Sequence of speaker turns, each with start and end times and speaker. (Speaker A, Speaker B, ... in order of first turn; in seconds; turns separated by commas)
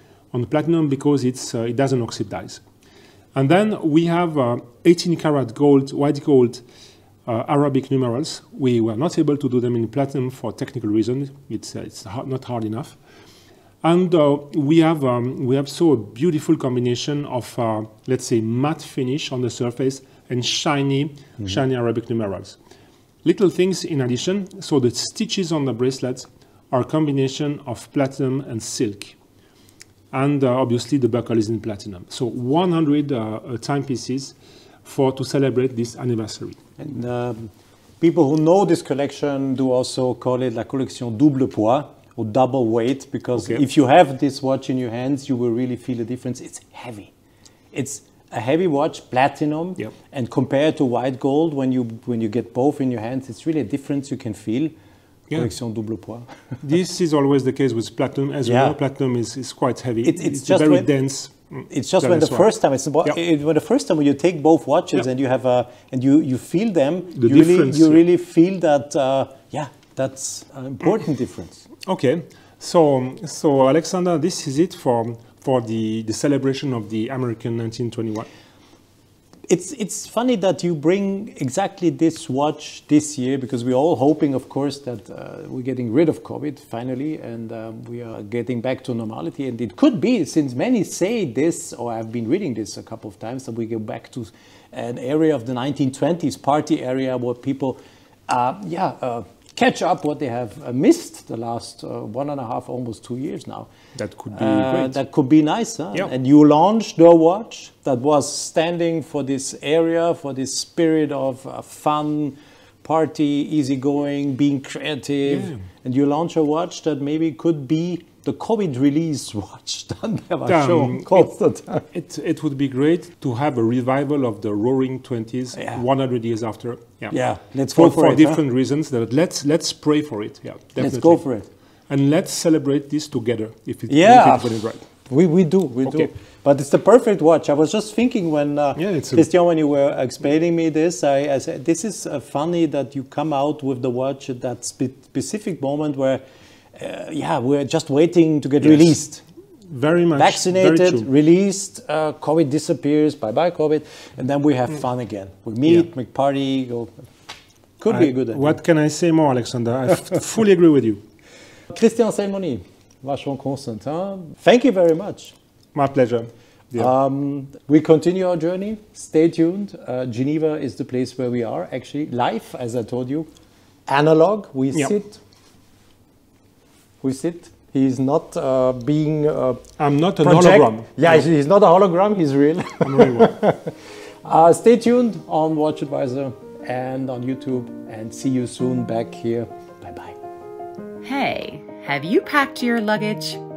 Speaker A: 0.3-2.6, Speaker A: 3.3-6.6, Speaker A: 7.2-13.0, Speaker A: 13.8-22.6, Speaker A: 23.2-29.2, Speaker A: 30.1-36.6, Speaker B: 36.8-47.1, Speaker B: 47.7-54.7, Speaker B: 55.3-56.3, Speaker A: 56.6-62.5, Speaker B: 58.4-58.8, Speaker B: 60.0-60.9, Speaker B: 61.7-71.7, Speaker A: 67.1-68.0, Speaker A: 71.8-78.3, Speaker B: 79.5-103.7, Speaker A: 104.0-105.0, Speaker B: 104.3-121.8, Speaker A: 115.3-115.6, Speaker A: 120.5-121.3, Speaker A: 121.9-127.1, Speaker B: 127.1-128.4, Speaker A: 127.7-131.2, Speaker B: 130.8-131.5, Speaker A: 131.9-134.8, Speaker B: 133.9-146.2, Speaker A: 135.8-136.1, Speaker A: 138.8-139.3, Speaker B: 146.7-149.2, Speaker A: 148.6-148.9, Speaker A: 149.7-151.1, Speaker B: 150.1-156.9, Speaker B: 157.8-158.6, Speaker A: 157.9-161.0, Speaker B: 161.7-165.3, Speaker A: 165.7-166.9, Speaker B: 166.8-173.3, Speaker B: 173.9-175.2, Speaker B: 177.0-179.6, Speaker A: 179.8-181.2, Speaker B: 180.2-190.2, Speaker A: 182.8-183.3, Speaker C: 191.0-193.4